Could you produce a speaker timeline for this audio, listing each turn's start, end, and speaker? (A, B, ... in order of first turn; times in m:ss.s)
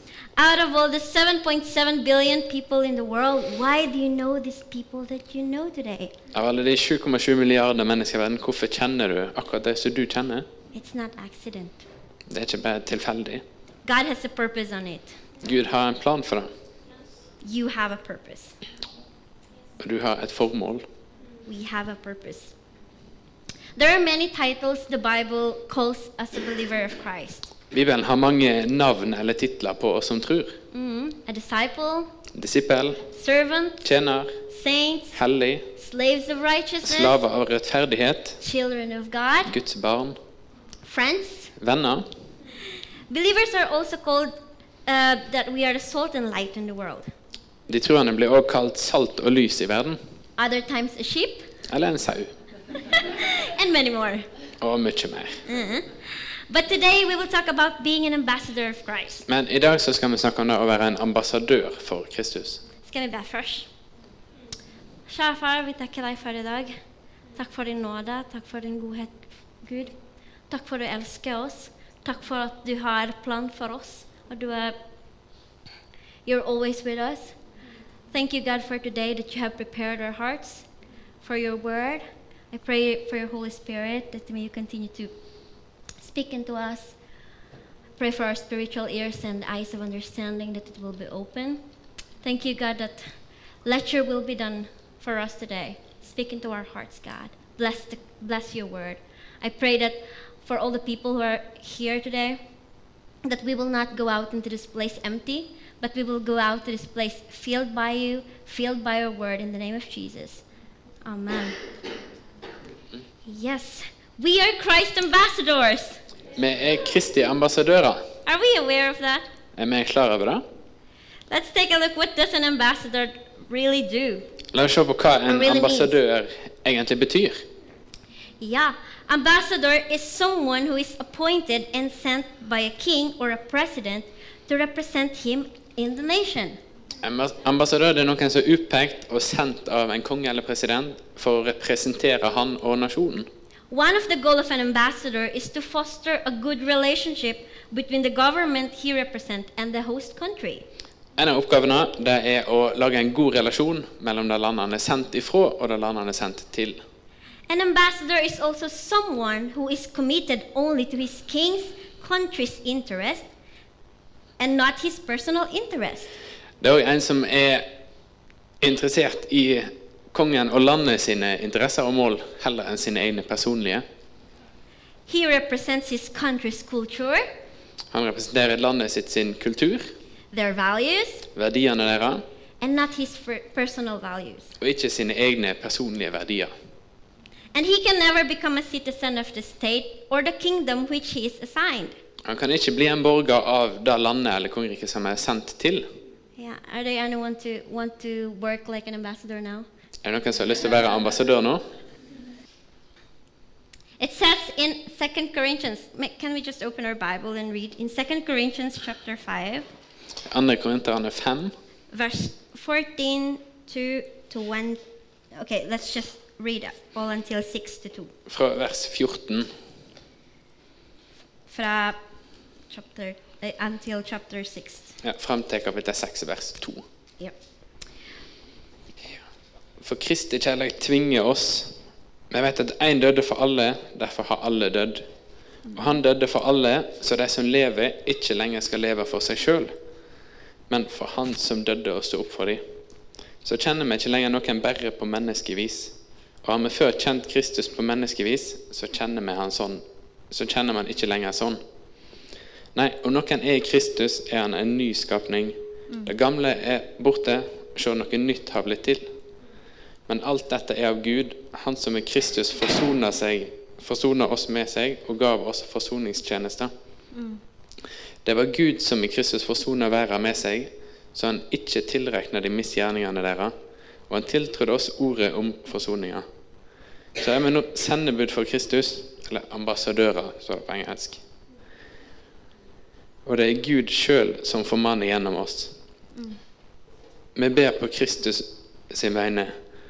0:00.4-0:06.2 A
0:06.3-0:10.5 B
0:10.7-0:11.9 A
0:12.3-0:13.4 B
0:13.8-0:15.2 A
0:15.4-0:16.5 B
0:17.4-0:18.6 A
0:19.8-0:20.9 B
0:21.5-0:22.6 A
0:23.8-0:27.5 A
0:27.7-0:30.6 B
0:30.7-0:32.2 A
0:32.3-0:33.1 B
0:33.1-0:33.9 A
0:33.8-0:34.4 B
0:34.5-0:35.2 A
0:35.1-0:35.7 B
0:35.8-0:37.2 A
0:36.8-0:38.4 B
0:38.4-0:39.6 A
0:39.5-0:40.2 B
0:40.8-0:41.5 A
0:41.6-0:42.1 B
0:43.1-0:44.3 A
0:44.9-0:47.1 A
0:47.7-0:50.0 B
0:50.4-0:51.5 A
0:51.7-0:52.3 B
0:52.8-0:54.3 A
0:54.6-0:55.4 B
0:55.5-0:59.3 A
0:59.3-1:02.6 B
1:02.8-1:03.7 A
1:05.1-1:06.7 A
1:07.4-1:09.9 A
1:10.5-1:14.8 A
1:16.3-1:17.4 A
1:18.1-1:20.7 A
1:21.2-1:25.1 A
1:26.0-1:27.0 A
1:28.0-1:31.6 A
1:32.2-1:33.1 A
1:33.6-1:42.4 A
1:43.2-1:50.4 A
1:51.0-1:51.6 A
1:53.3-1:56.0 A
1:56.4-1:58.1 B
1:58.3-1:59.3 A
1:59.6-2:00.4 B
2:01.3-2:04.3 A
2:04.5-2:07.4 B
2:05.3-2:06.0 A
2:08.4-2:16.6 A
2:17.0-2:23.3 B
2:23.7-2:30.7 A
2:31.2-2:36.8 B
2:37.5-2:43.3 A
2:44.4-2:46.2 A
2:46.6-2:47.7 B
2:48.6-2:53.8 B
2:55.1-2:57.3 A
2:57.9-2:59.9 B
3:00.3-3:01.3 A
3:01.4-3:02.2 B
3:02.6-3:04.6 A
3:04.6-3:06.5 B
3:07.5-3:12.0 A
3:12.3-3:15.9 B
3:16.4-3:19.7 A
3:20.0-3:21.7 B
3:24.0-3:29.7 A
3:30.3-3:31.6 B
3:31.9-3:34.8 A
3:35.3-3:38.1 A
3:38.3-3:39.5 B
3:41.5-3:42.0 A
3:42.7-3:45.0 A
3:45.0-3:46.8 B
3:49.8-3:51.8 B
3:52.3-3:55.0 B
3:55.7-3:59.7 B
4:00.7-4:02.6 B
4:03.4-4:11.6 B
4:12.8-4:19.1 B
4:20.1-4:26.7 B
4:27.1-4:27.4 A
4:28.2-4:33.5 B
4:34.1-4:36.3 B
4:37.2-4:41.2 B
4:43.2-4:45.7 B
4:47.4-4:49.6 B